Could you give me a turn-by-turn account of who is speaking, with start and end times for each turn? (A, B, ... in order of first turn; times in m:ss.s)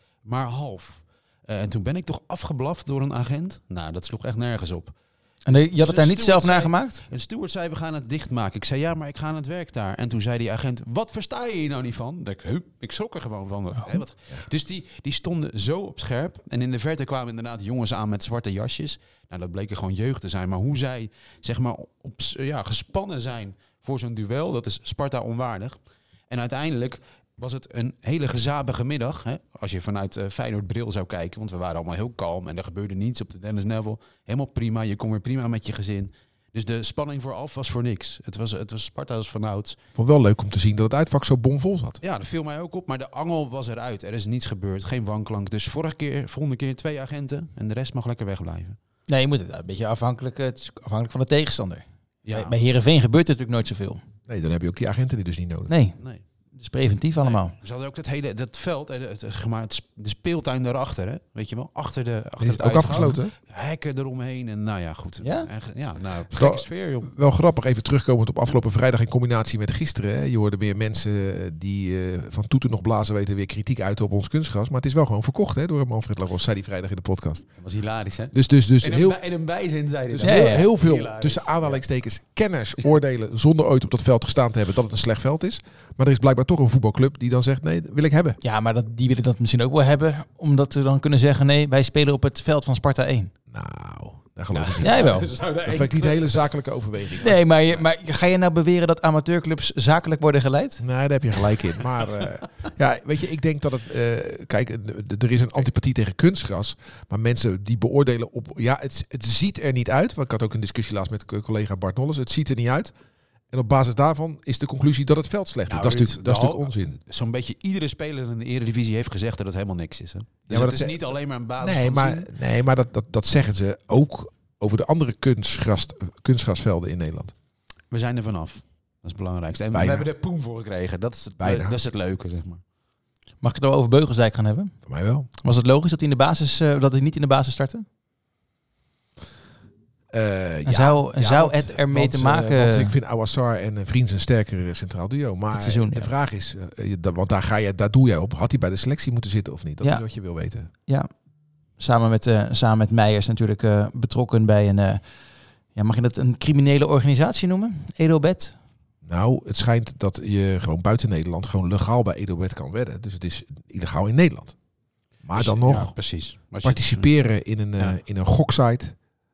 0:00.2-0:05.0 A
0:05.5-0:07.0 B
0:05.5-0:25.8 A
0:26.3-0:39.8 A
0:40.0-0:42.0 C
0:42.0-0:48.8 A
0:49.1-0:54.0 B
0:52.3-0:52.6 A
0:54.3-0:55.7 C
0:55.7-0:56.0 B
0:56.6-0:57.5 B
0:57.2-1:07.1 A
1:02.4-1:03.3 C
1:05.2-1:05.5 B
1:06.3-1:17.5 C
1:17.6-1:21.9 A
1:18.3-1:19.2 C
1:20.1-1:28.4 C
1:20.2-1:20.7 B
1:28.4-1:33.3 B
1:33.5-1:37.5 C
1:34.5-1:36.5 A
1:34.8-1:35.3 B
1:37.2-1:40.8 B
1:40.8-1:52.9 C
1:53.5-1:57.0 C
1:55.7-2:02.3 A
2:00.5-2:01.1 C
2:01.6-2:07.3 C
2:07.9-2:12.6 A
2:09.7-2:10.1 C
2:11.4-2:11.8 C
2:13.4-2:14.7 B
2:14.9-2:15.3 C
2:15.4-2:17.9 B
2:20.1-2:30.7 C
2:20.7-2:22.9 B
2:25.5-2:26.1 B
2:31.8-2:35.0 B
2:35.8-2:38.6 B
2:39.0-2:44.6 C
2:45.2-2:45.9 C
2:45.3-2:47.1 A
2:46.6-2:49.0 C